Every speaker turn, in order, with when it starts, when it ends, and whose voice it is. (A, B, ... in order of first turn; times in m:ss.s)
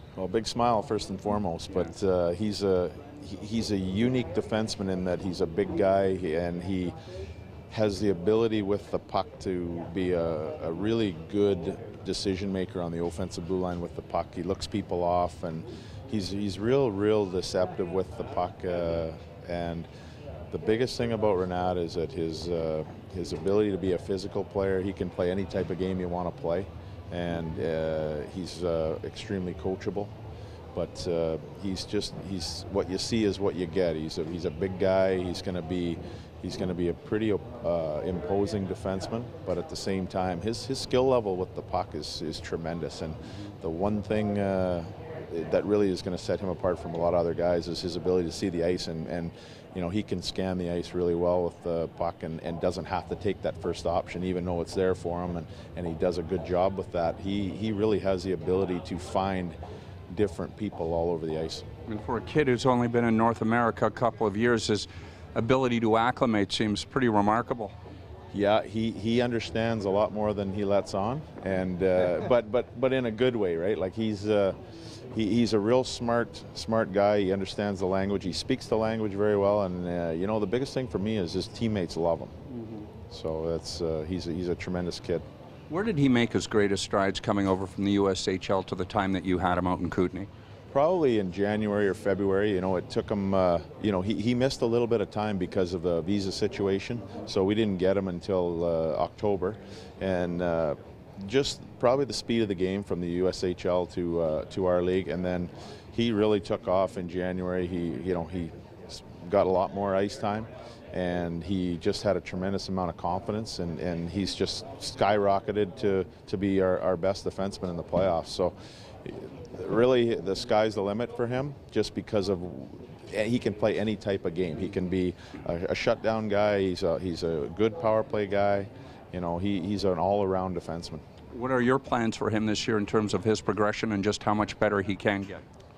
0:00.2-0:07.0 A
0:07.7-0:19.9 A
0:20.5-0:30.1 A
0:30.8-0:59.6 A
1:00.1-1:01.6 A
1:01.9-1:07.7 B
1:08.3-1:14.6 A
1:15.1-1:22.3 A
1:23.1-1:25.2 A
1:25.7-1:30.3 B
1:30.7-2:11.0 A
2:11.3-2:15.4 B